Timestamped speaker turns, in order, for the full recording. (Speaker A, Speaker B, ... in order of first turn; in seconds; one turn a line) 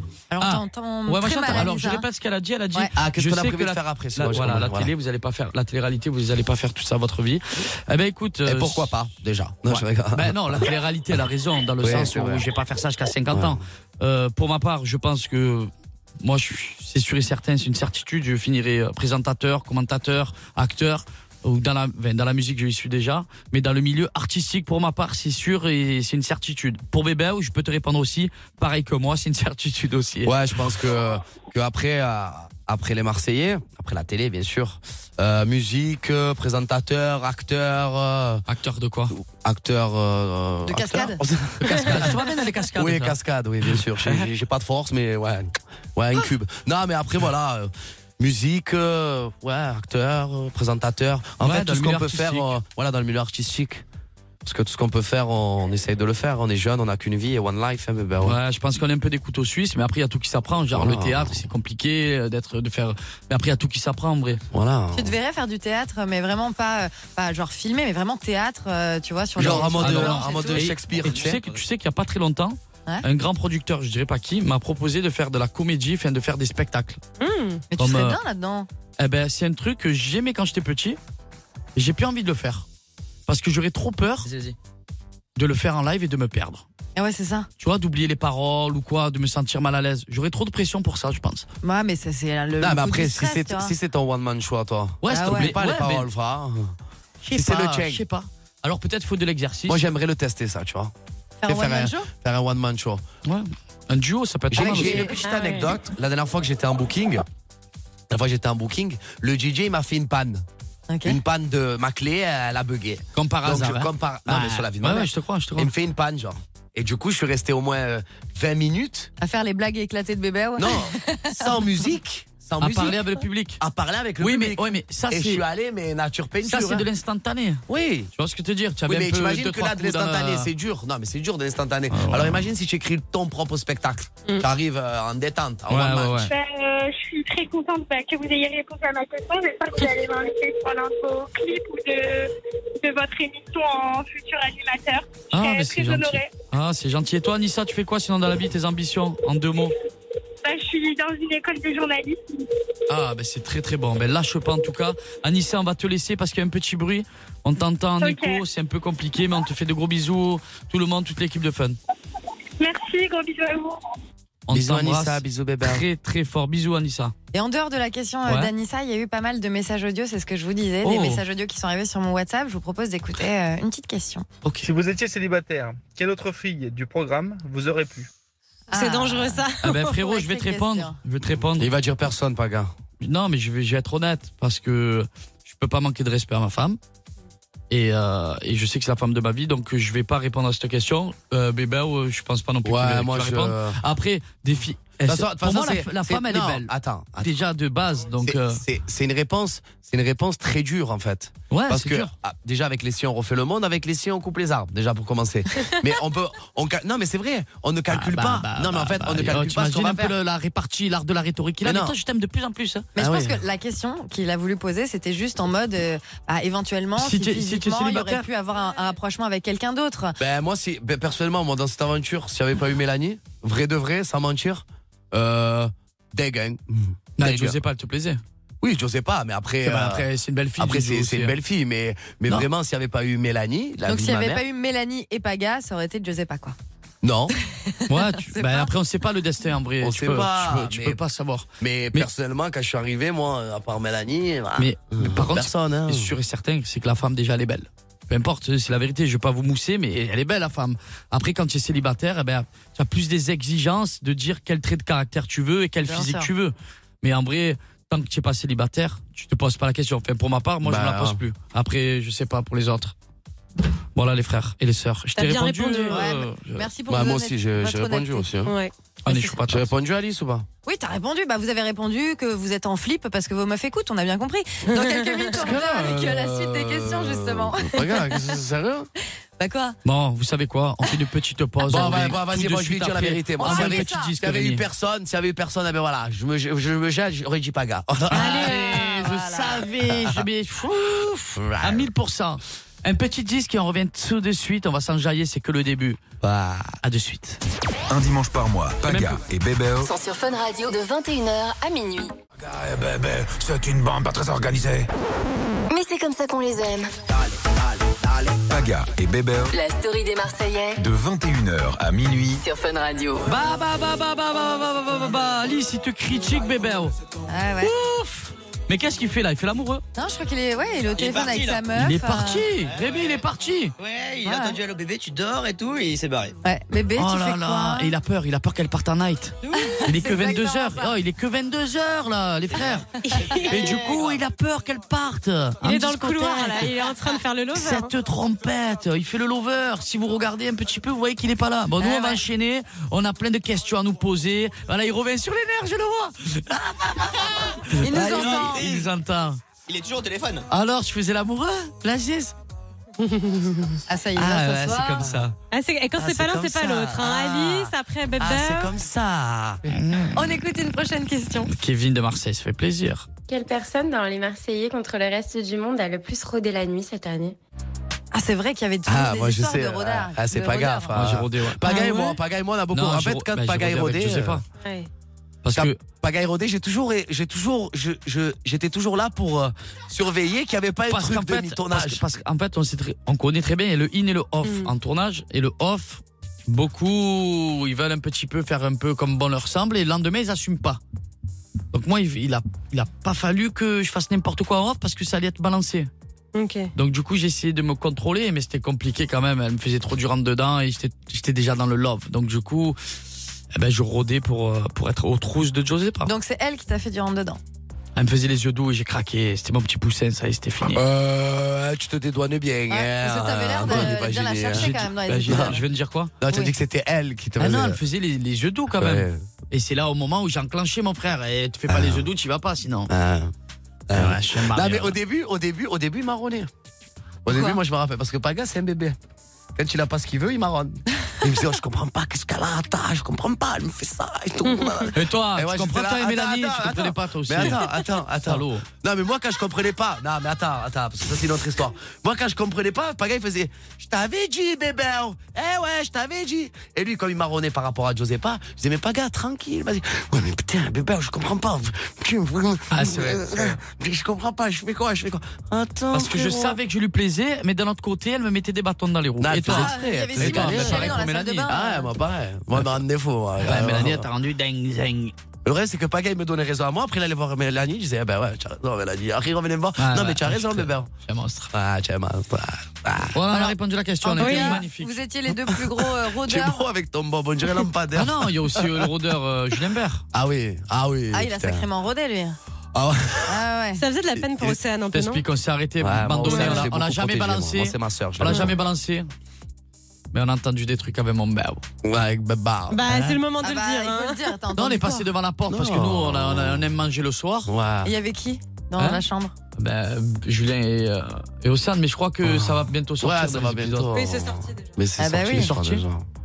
Speaker A: 0.3-2.0
Speaker B: 0.4-8.9
Speaker C: 2.9-4.9
Speaker C: 8.4-10.6
Speaker B: 9.7-30.3
Speaker C: 11.8-12.4
Speaker C: 13.3-13.6
Speaker C: 30.2-38.4
Speaker B: 38.5-39.1
Speaker C: 39.1-42.2
Speaker A: 40.6-41.2
Speaker B: 41.6-43.2
Speaker C: 42.7-53.8
Speaker B: 43.7-44.2
Speaker B: 51.4-52.5
Speaker C: 54.4-58.4
Speaker B: 58.2-64.4
Speaker C: 60.7-61.4
Speaker C: 64.5-65.1
Speaker A: 64.9-70.7
Speaker C: 69.3-71.4
Speaker B: 69.4-77.0
Speaker D: 77.2-77.6
Speaker A: 77.7-78.7
Speaker B: 77.8-78.2
Speaker B: 79.0-81.0
Speaker B: 81.8-82.6
Speaker B: 83.3-84.3
Speaker E: 84.2-84.5
Speaker B: 85.3-86.6
Speaker A: 87.0-87.5
Speaker B: 87.6-91.5
Speaker A: 91.6-93.7
Speaker C: 92.6-96.7
Speaker B: 95.0-96.1
Speaker A: 95.1-95.5
Speaker B: 97.2-99.8
Speaker C: 97.3-98.0
Speaker C: 99.7-100.9
Speaker A: 101.4-102.1
Speaker C: 101.4-103.0
Speaker B: 103.2-105.1
Speaker C: 104.5-107.2
Speaker A: 104.6-105.1
Speaker D: 105.2-105.7
Speaker C: 108.1-110.4
Speaker A: 110.9-111.2
Speaker C: 111.0-119.1
Speaker B: 113.2-115.7
Speaker A: 119.2-121.8
Speaker C: 120.6-123.0
Speaker B: 122.6-123.6
Speaker C: 123.6-126.9
Speaker B: 124.2-125.4
Speaker B: 126.4-127.6
Speaker C: 127.7-128.1
Speaker B: 128.2-130.5
Speaker C: 128.8-136.3
Speaker B: 131.9-132.5
Speaker B: 135.7-136.3
Speaker F: 136.3-146.3
Speaker B: 145.3-149.7
Speaker F: 150.4-152.4
Speaker B: 152.9-161.8
Speaker F: 158.0-158.4
Speaker F: 162.6-163.8
Speaker B: 164.5-167.1
Speaker C: 164.5-165.8
Speaker A: 167.3-174.2
Speaker B: 168.2-168.5
Speaker B: 170.8-171.2
Speaker B: 174.4-174.7
Speaker G: 174.6-178.1
Speaker A: 178.7-180.9
Speaker D: 178.7-179.9
Speaker B: 179.6-181.7
Speaker C: 181.5-182.7
Speaker B: 183.0-186.8
Speaker B: 187.7-198.6
Speaker C: 192.6-193.8
Speaker C: 195.0-197.3
Speaker C: 198.2-210.2
Speaker B: 201.5-202.1
Speaker B: 207.9-212.9
Speaker C: 211.6-211.9
Speaker A: 212.9-220.2
Speaker C: 212.9-213.4
Speaker B: 217.0-218.3
Speaker C: 220.2-227.6
Speaker B: 227.2-228.2
Speaker C: 228.6-234.4
Speaker B: 229.6-231.4
Speaker A: 233.8-236.6
Speaker C: 237.0-237.3
Speaker A: 237.5-238.7
Speaker B: 237.9-242.1
Speaker C: 239.8-241.0
Speaker C: 241.6-246.1
Speaker B: 244.6-262.9
Speaker A: 255.8-256.3
Speaker C: 260.6-261.2
Speaker B: 263.9-266.7
Speaker D: 265.1-266.1
Speaker A: 265.9-268.3
Speaker C: 266.9-268.5
Speaker D: 268.4-268.7
Speaker B: 269.0-269.7
Speaker C: 269.5-270.5
Speaker A: 270.6-278.2
Speaker D: 274.7-275.3
Speaker C: 275.3-278.9
Speaker A: 279.4-279.8
Speaker B: 279.8-284.6
Speaker C: 281.6-288.7
Speaker A: 281.7-282.1
Speaker A: 283.4-284.1
Speaker B: 288.1-296.0
Speaker A: 288.1-289.6
Speaker D: 288.2-288.8
Speaker C: 289.8-290.2
Speaker C: 291.4-291.9
Speaker C: 296.2-296.8
Speaker B: 296.8-297.4
Speaker H: 297.9-299.9
Speaker B: 298.9-299.2
Speaker I: 299.8-302.1
Speaker H: 302.4-304.9
Speaker I: 305.7-306.9
Speaker E: 308.0-308.4
Speaker H: 308.5-309.5
Speaker I: 309.5-310.8
Speaker H: 310.8-312.4
Speaker I: 312.4-313.3
Speaker B: 313.2-316.9
Speaker A: 317.3-317.7
Speaker B: 317.6-319.8
Speaker A: 319.9-322.5
Speaker E: 320.9-321.7
Speaker B: 321.7-323.7
Speaker E: 322.6-323.2
Speaker E: 323.8-326.4
Speaker A: 324.2-324.6
Speaker A: 326.4-327.9
Speaker B: 326.9-332.9
Speaker A: 329.5-330.9
Speaker E: 332.5-334.2
Speaker D: 333.0-333.6
Speaker B: 333.4-336.7
Speaker D: 335.6-337.9
Speaker B: 337.5-349.4
Speaker A: 341.8-342.2
Speaker A: 347.8-348.7
Speaker E: 347.9-348.9
Speaker E: 349.7-350.4
Speaker B: 350.5-352.3
Speaker D: 353.0-353.7
Speaker A: 353.9-355.1
Speaker B: 354.2-355.3
Speaker C: 354.2-355.3
Speaker D: 355.5-358.7
Speaker C: 356.0-359.6
Speaker B: 359.7-360.2
Speaker A: 360.1-361.5
Speaker B: 361.4-363.1
Speaker J: 363.3-367.4
Speaker A: 368.1-371.0
Speaker C: 368.9-374.4
Speaker B: 370.9-371.9
Speaker A: 371.6-372.1
Speaker B: 372.7-374.4
Speaker D: 374.6-374.9
Speaker B: 375.4-375.8
Speaker C: 375.5-382.0
Speaker B: 380.9-390.8
Speaker D: 384.4-384.7
Speaker B: 391.7-395.9
Speaker D: 396.3-396.7
Speaker B: 396.7-402.8
Speaker B: 403.5-406.1
Speaker A: 406.0-407.4
Speaker B: 407.9-410.8
Speaker C: 410.6-415.6
Speaker A: 412.7-415.6
Speaker B: 413.7-413.9
Speaker B: 414.5-416.1
Speaker C: 416.2-417.8
Speaker A: 416.3-416.5
Speaker B: 417.4-422.9
Speaker C: 418.7-419.2
Speaker C: 421.7-422.1
Speaker C: 422.9-423.3
Speaker C: 423.9-426.5
Speaker B: 423.9-425.0
Speaker C: 427.2-428.9
Speaker C: 429.6-456.6
Speaker D: 434.4-434.9
Speaker B: 434.9-437.6
Speaker B: 438.2-438.6
Speaker B: 452.7-453.6
Speaker B: 455.9-461.5
Speaker C: 459.2-464.1
Speaker A: 459.4-461.9
Speaker B: 463.4-465.1
Speaker C: 465.4-470.9
Speaker B: 469.8-471.5
Speaker C: 471.5-473.2
Speaker B: 473.1-475.0
Speaker A: 473.3-476.6
Speaker D: 474.2-474.6
Speaker C: 475.5-478.9
Speaker B: 477.9-480.0
Speaker C: 480.1-481.7
Speaker A: 481.1-482.4
Speaker C: 482.7-483.4
Speaker A: 483.3-483.8
Speaker D: 483.8-485.2
Speaker C: 484.1-484.6
Speaker B: 484.9-489.1
Speaker C: 485.8-488.5
Speaker D: 486.2-486.6
Speaker B: 490.1-491.6
Speaker C: 491.8-492.8
Speaker D: 492.7-494.2
Speaker B: 492.9-493.2
Speaker A: 493.4-495.1
Speaker B: 494.5-497.5
Speaker C: 495.5-496.7
Speaker C: 497.5-497.9
Speaker A: 497.8-499.3
Speaker B: 498.8-499.0
Speaker B: 499.6-503.9
Speaker C: 502.2-506.1
Speaker D: 503.9-504.7
Speaker A: 505.0-505.5
Speaker B: 505.3-505.8